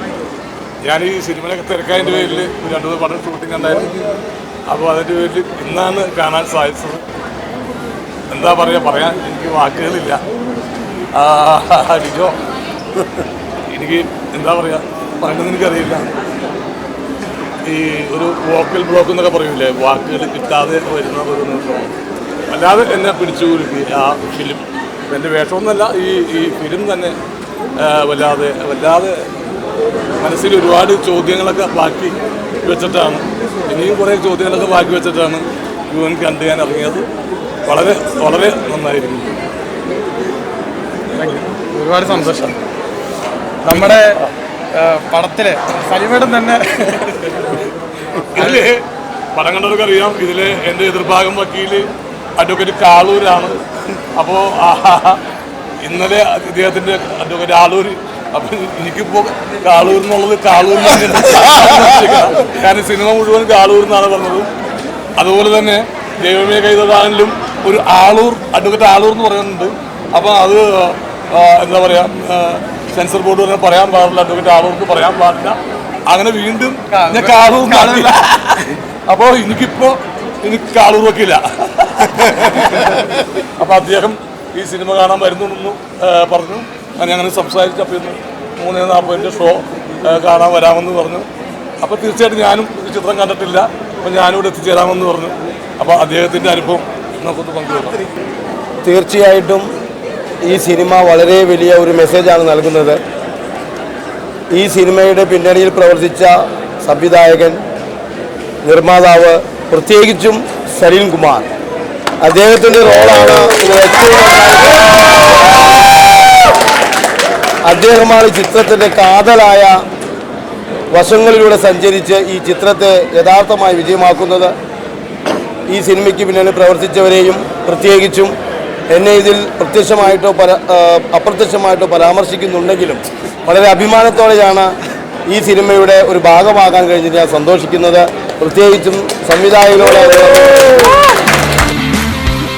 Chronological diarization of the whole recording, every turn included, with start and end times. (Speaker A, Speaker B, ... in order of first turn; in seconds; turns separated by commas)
Speaker A: 0.8-4.0, Speaker A: 4.7-7.0, Speaker A: 8.3-10.2, Speaker A: 11.1-12.4, Speaker A: 13.7-16.1, Speaker A: 17.6-21.9, Speaker A: 22.5-27.1, Speaker A: 27.8-29.3, Speaker A: 30.2-37.1, Speaker A: 37.7-39.4, Speaker B: 41.1-42.5, Speaker B: 43.6-44.2, Speaker B: 44.7-47.6, Speaker B: 48.2-48.6, Speaker A: 48.3-48.8, Speaker A: 49.3-53.6, Speaker A: 54.1-55.2, Speaker A: 55.8-64.5, Speaker A: 65.2-91.3, Speaker B: 76.9-78.1, Speaker A: 91.8-98.0, Speaker C: 98.8-99.7, Speaker C: 100.4-103.0, Speaker C: 104.5-107.6, Speaker C: 108.6-111.5, Speaker C: 112.2-115.1, Speaker C: 117.6-119.8, Speaker C: 120.9-124.5, Speaker C: 125.7-128.3, Speaker C: 128.9-134.7, Speaker C: 135.3-140.9